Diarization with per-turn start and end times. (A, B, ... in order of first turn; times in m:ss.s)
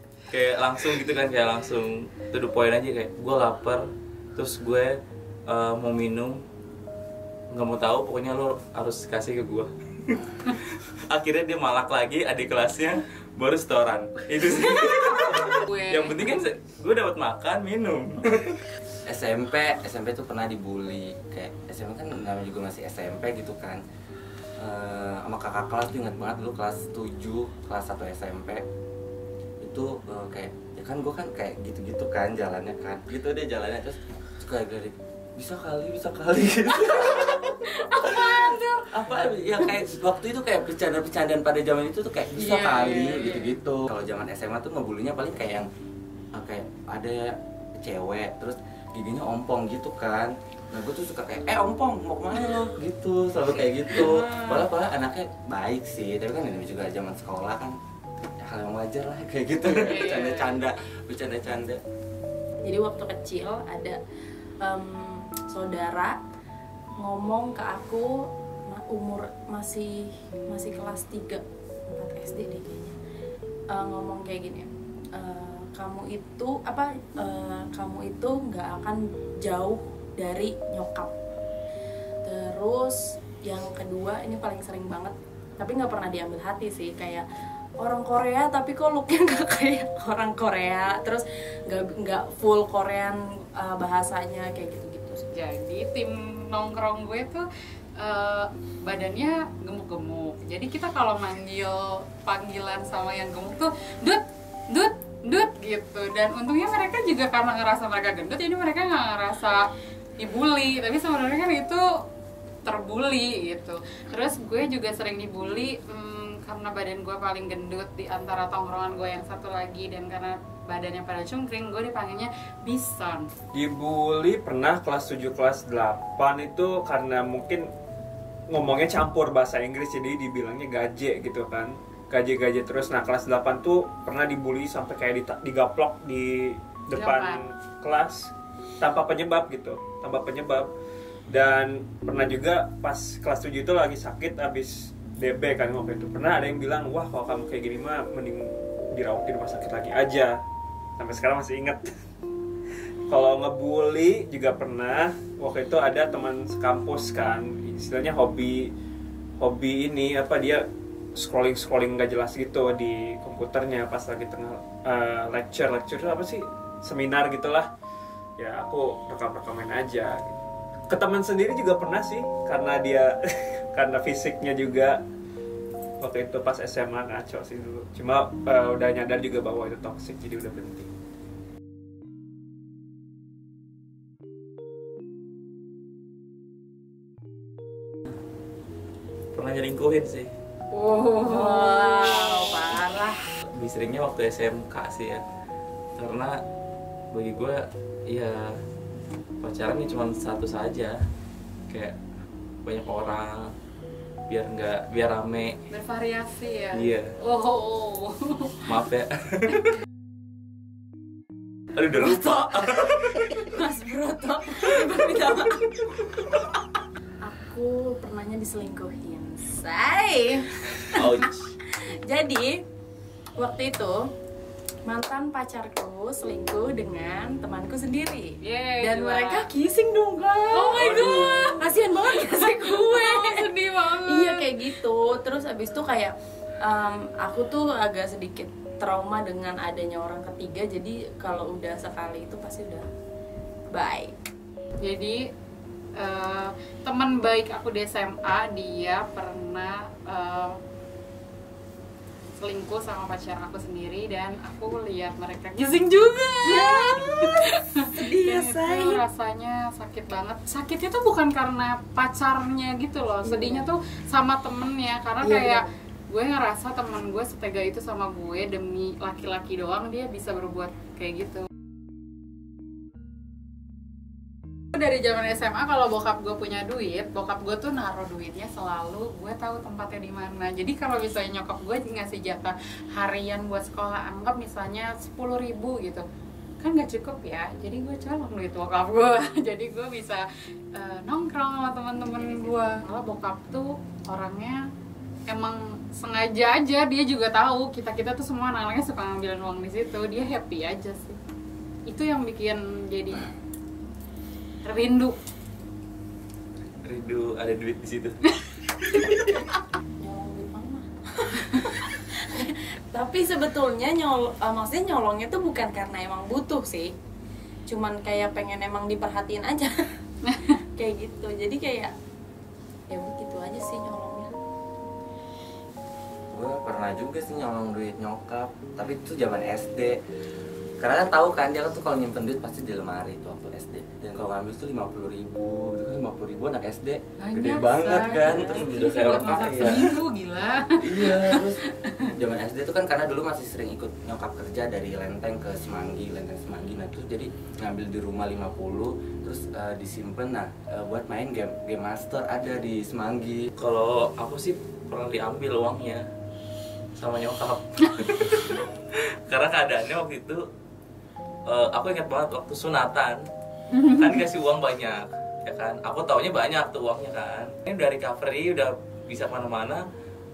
0:00.3-0:06.4 A
0:07.5-0:18.7 A
0:15.6-0:16.3 B
0:19.1-0:23.8 C
0:24.6-0:28.6 C
0:29.6-0:45.7 C
0:37.7-0:38.8 B
0:42.4-0:43.5 B
0:46.4-0:57.8 C
0:54.0-0:54.6 D
0:58.4-1:01.8 C
0:59.6-1:00.6 B
1:02.6-1:04.0 D
1:04.6-1:06.1 D
1:07.0-1:13.0 D
1:13.7-1:21.1 D
1:22.3-1:27.2 D
1:27.8-1:35.2 D
1:35.3-1:37.4 B
1:38.0-1:49.7 B
1:50.2-1:51.8 B
1:52.6-2:03.2 B
2:03.5-2:07.7 E
2:08.5-2:20.7 E
2:16.9-2:17.4 B
2:21.3-2:30.4 E
2:31.0-2:31.9 E
2:33.1-2:38.7 E
2:39.4-2:47.7 E
2:48.4-2:55.0 E
2:56.0-3:00.9 E
3:09.4-3:10.3 A
3:10.7-3:12.2 B
3:11.2-3:13.2 D
3:13.5-3:15.2 A
3:16.0-3:16.3 A
3:17.1-3:18.6 A
3:19.4-3:20.9 A
3:21.7-3:22.0 A
3:22.6-3:23.5 A
3:24.3-3:25.6 A
3:25.7-3:28.8 B
3:26.7-3:27.1 A
3:28.7-3:29.7 A
3:31.8-3:33.4 A
3:33.3-3:36.4 D
3:37.2-3:41.3 D
3:40.9-3:41.5 A
3:41.9-3:42.6 D
3:43.4-3:44.0 D
3:44.9-3:53.5 D
3:48.4-3:49.5 B
3:50.5-3:54.8 B
3:50.8-3:51.4 A
3:54.1-4:02.9 D
4:03.7-4:04.1 D
4:04.8-4:05.2 B
4:06.0-4:10.6 B
4:12.4-4:31.4 B
4:16.4-4:19.0 D
4:23.3-4:23.7 D
4:25.2-4:25.7 D
4:34.8-4:46.0 B
4:46.6-4:54.6 B
4:55.3-5:01.2 B
5:01.9-5:03.3 B
5:04.6-5:05.2 B
5:06.8-5:08.3 A
5:10.0-5:16.9 D
5:17.7-5:19.7 D
5:20.8-5:21.9 D
5:22.9-5:24.4 D
5:26.3-5:30.0 C
5:30.8-5:38.7 C
5:37.2-5:42.0 B
5:38.5-5:39.9 A
5:40.8-5:53.5 C
5:53.6-5:56.0 A
5:57.0-6:00.4 A
6:01.5-6:03.2 A
6:03.8-6:09.8 A